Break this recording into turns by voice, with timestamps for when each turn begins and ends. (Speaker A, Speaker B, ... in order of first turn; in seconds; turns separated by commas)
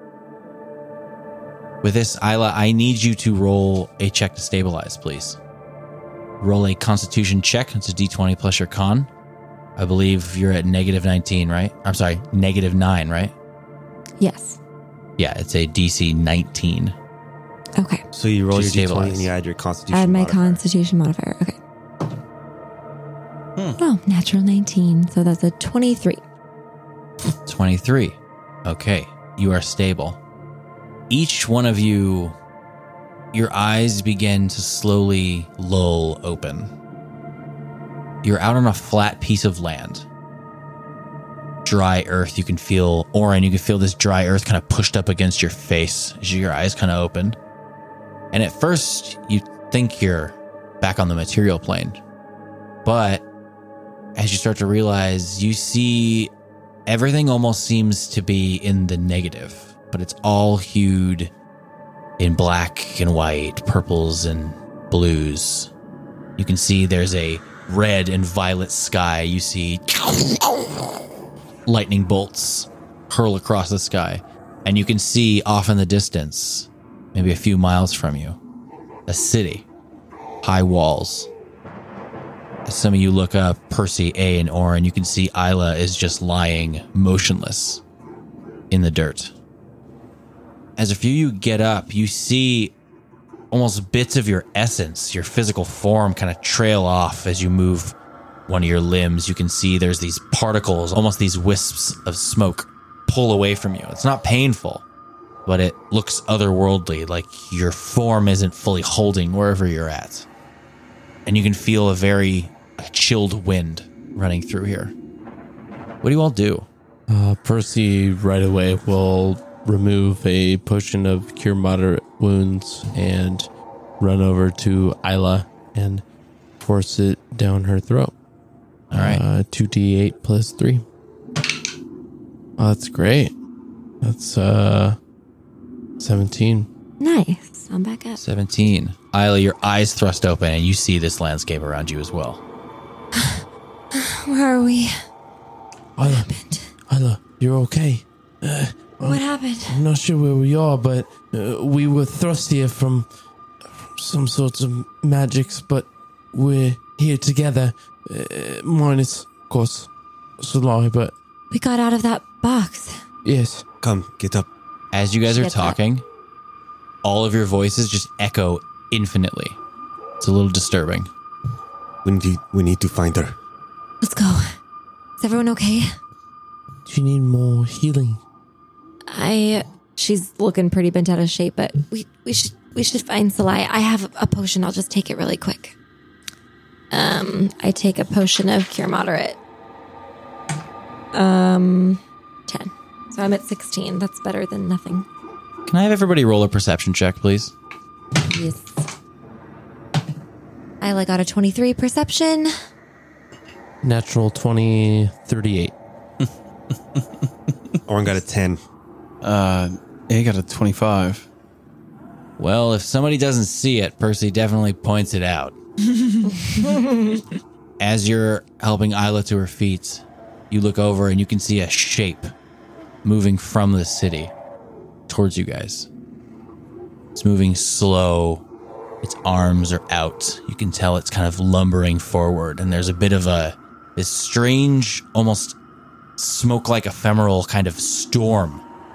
Speaker A: 1.8-5.4, Speaker A: 6.4-9.1, Speaker A: 9.8-13.3, Speaker B: 14.2-14.6, Speaker A: 15.2-16.9, Speaker B: 17.8-18.0, Speaker C: 18.1-20.6, Speaker A: 18.5-19.3, Speaker B: 19.9-21.6, Speaker B: 23.8-26.2, Speaker A: 27.4-30.2, Speaker A: 31.1-32.4, Speaker A: 33.3-36.7, Speaker A: 38.2-40.0, Speaker A: 41.6-47.4, Speaker A: 48.3-52.0, Speaker A: 52.9-53.2, Speaker A: 54.1-56.3, Speaker A: 56.9-61.3, Speaker A: 62.2-65.7, Speaker A: 66.4-70.7, Speaker A: 71.7-78.4, Speaker A: 79.1-79.7, Speaker A: 80.4-81.3, Speaker A: 82.7-87.8, Speaker A: 88.7-89.3, Speaker A: 90.8-92.7, Speaker A: 93.5-97.9, Speaker A: 98.5-104.8, Speaker A: 105.5-110.3, Speaker A: 111.3-114.9, Speaker A: 116.0-116.7, Speaker D: 117.1-123.5, Speaker D: 124.0-126.0, Speaker D: 126.6-128.1, Speaker A: 128.9-129.2, Speaker D: 128.9-130.8, Speaker D: 132.6-133.3, Speaker D: 134.0-135.0, Speaker D: 136.0-136.7, Speaker B: 137.0-138.2, Speaker A: 138.2-142.4, Speaker B: 143.9-144.9, Speaker D: 146.0-146.3, Speaker B: 146.0-146.7, Speaker D: 146.9-153.1, Speaker B: 149.0-149.8, Speaker D: 153.9-161.1, Speaker B: 161.5-162.9, Speaker D: 163.2-163.6, Speaker C: 163.8-164.5, Speaker A: 164.9-166.0, Speaker B: 165.3-165.8, Speaker A: 167.0-169.6, Speaker A: 170.2-171.1, Speaker C: 172.1-173.4, Speaker B: 174.0-174.6, Speaker B: 175.2-175.9, Speaker D: 176.9-178.2, Speaker B: 179.1-185.8, Speaker B: 186.9-189.4, Speaker B: 191.1-195.1, Speaker A: 195.7-197.5, Speaker B: 198.3-198.8, Speaker B: 200.8-202.5, Speaker D: 203.8-205.7, Speaker C: 207.9-208.6, Speaker E: 209.2-211.3, Speaker A: 212.4-215.6, Speaker A: 217.8-222.3, Speaker A: 223.0-224.3, Speaker A: 225.1-225.9, Speaker A: 227.2-228.4, Speaker A: 229.0-235.6, Speaker A: 236.2-238.6